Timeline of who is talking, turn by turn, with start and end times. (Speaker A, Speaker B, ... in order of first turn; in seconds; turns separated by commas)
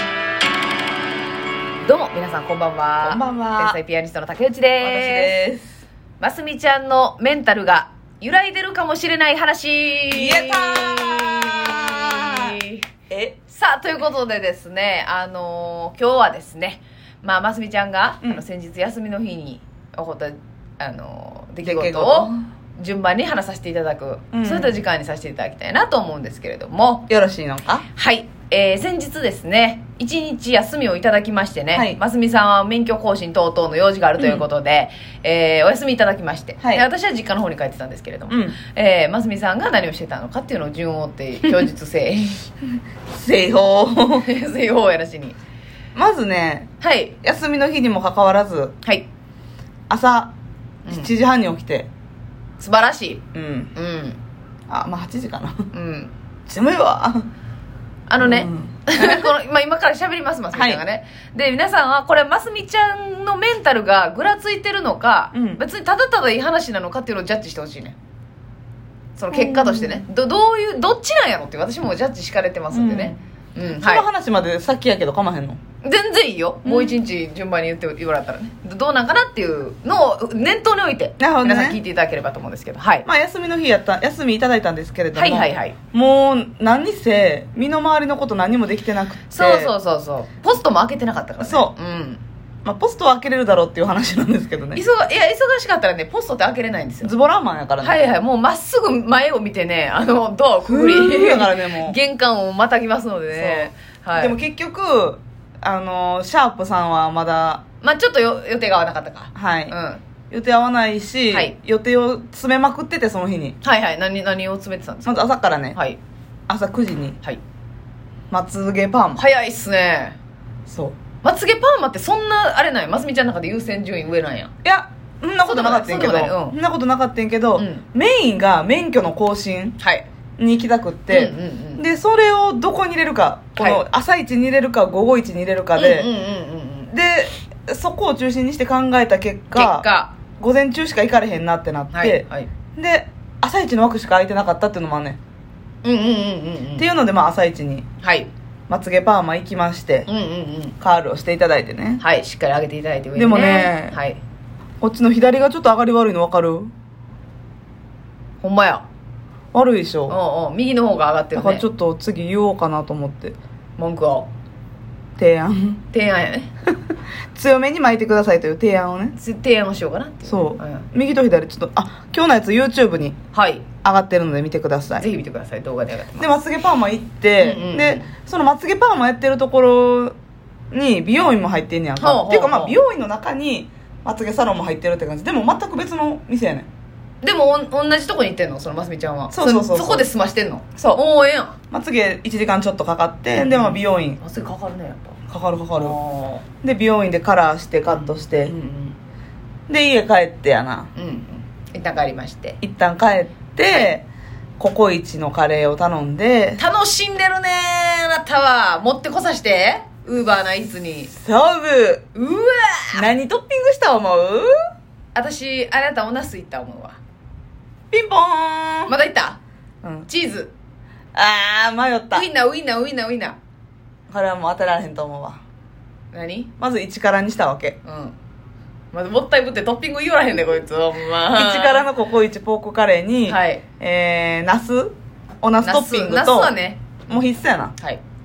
Speaker A: 1.8-5.3, Speaker B: 3.0-3.8, Speaker B: 4.8-5.8, Speaker A: 6.2-12.8, Speaker B: 10.1-12.6, Speaker B: 13.1-13.4, Speaker A: 13.5-27.1, Speaker B: 21.6-22.4, Speaker B: 24.3-24.8, Speaker B: 27.1-27.8, Speaker A: 27.9-42.5, Speaker B: 31.7-32.0, Speaker B: 36.6-36.9, Speaker B: 38.3-38.6, Speaker B: 43.1-44.3, Speaker A: 44.2-45.4, Speaker B: 45.9-46.7, Speaker A: 46.8-47.1, Speaker B: 47.2-48.7, Speaker B: 49.9-50.3, Speaker A: 50.9-51.1, Speaker B: 50.9-51.9, Speaker A: 52.6-53.2, Speaker B: 53.3-53.7, Speaker A: 53.7-54.2, Speaker B: 54.7-55.7, Speaker A: 55.7-56.1, Speaker B: 56.5-57.3, Speaker A: 58.1-68.0, Speaker B: 58.2-59.3, Speaker B: 60.5-60.8, Speaker B: 65.3-65.6, Speaker A: 69.2-74.0, Speaker B: 69.3-70.0, Speaker B: 72.7-75.6, Speaker A: 75.8-83.0, Speaker B: 76.6-77.0, Speaker B: 81.2-81.8, Speaker B: 83.0-89.7, Speaker A: 85.1-85.8, Speaker A: 89.3-92.2, Speaker B: 91.4-91.7, Speaker B: 92.6-94.8, Speaker A: 94.7-97.1, Speaker B: 97.0-98.0, Speaker A: 97.8-104.4, Speaker B: 100.6-102.0, Speaker B: 103.3-107.6, Speaker A: 107.8-110.0, Speaker B: 109.3-109.7, Speaker B: 110.3-113.6, Speaker A: 113.6-116.0, Speaker B: 115.0-115.8, Speaker B: 116.5-117.2, Speaker B: 118.3-119.2, Speaker A: 119.2-120.2, Speaker B: 120.7-121.0, Speaker A: 121.2-124.5, Speaker B: 124.6-129.8, Speaker A: 125.4-126.6, Speaker A: 127.6-127.8, Speaker A: 129.8-130.0, Speaker B: 130.4-136.1, Speaker A: 131.1-131.8, Speaker A: 133.6-133.8, Speaker A: 135.8-136.9, Speaker B: 136.9-139.8, Speaker A: 139.5-140.1, Speaker B: 140.4-145.2, Speaker A: 141.9-142.5, Speaker A: 145.8-146.9, Speaker B: 146.8-147.9, Speaker A: 148.0-148.3, Speaker B: 148.7-150.1, Speaker A: 150.1-150.7, Speaker B: 150.8-152.0, Speaker A: 152.0-154.2, Speaker B: 153.2-154.0, Speaker B: 154.8-156.7, Speaker A: 158.4-158.8, Speaker B: 159.5-160.2, Speaker A: 160.1-161.6, Speaker B: 161.3-163.3, Speaker A: 163.8-164.3, Speaker B: 165.2-165.8, Speaker A: 165.9-166.5, Speaker B: 167.3-169.1, Speaker A: 169.2-170.8, Speaker B: 170.2-173.2, Speaker A: 173.3-173.7, Speaker B: 173.8-175.1, Speaker A: 175.0-176.3, Speaker B: 176.2-180.2, Speaker A: 177.4-178.1, Speaker B: 180.7-186.7, Speaker A: 182.0-182.8, Speaker A: 187.2-191.6, Speaker B: 189.3-190.1, Speaker B: 191.7-194.2, Speaker A: 193.3-195.1, Speaker B: 195.3-196.0, Speaker A: 195.7-196.4, Speaker B: 196.6-198.5, Speaker A: 197.9-198.9, Speaker B: 199.7-200.9, Speaker A: 200.9-202.6, Speaker B: 202.6-204.1, Speaker B: 204.6-206.6, Speaker A: 206.6-211.1, Speaker B: 211.1-212.0, Speaker A: 212.1-213.0, Speaker B: 212.9-214.5, Speaker A: 215.1-217.0, Speaker B: 217.9-218.9, Speaker A: 218.9-219.4, Speaker B: 219.8-220.1, Speaker A: 220.1-220.5, Speaker B: 221.1-222.2, Speaker A: 222.1-223.4, Speaker B: 224.1-225.4, Speaker A: 226.1-226.5, Speaker B: 226.6-227.8, Speaker A: 227.8-228.1, Speaker A: 228.9-231.9, Speaker B: 231.3-236.5, Speaker A: 233.3-233.6, Speaker A: 235.6-236.8, Speaker B: 237.1-237.7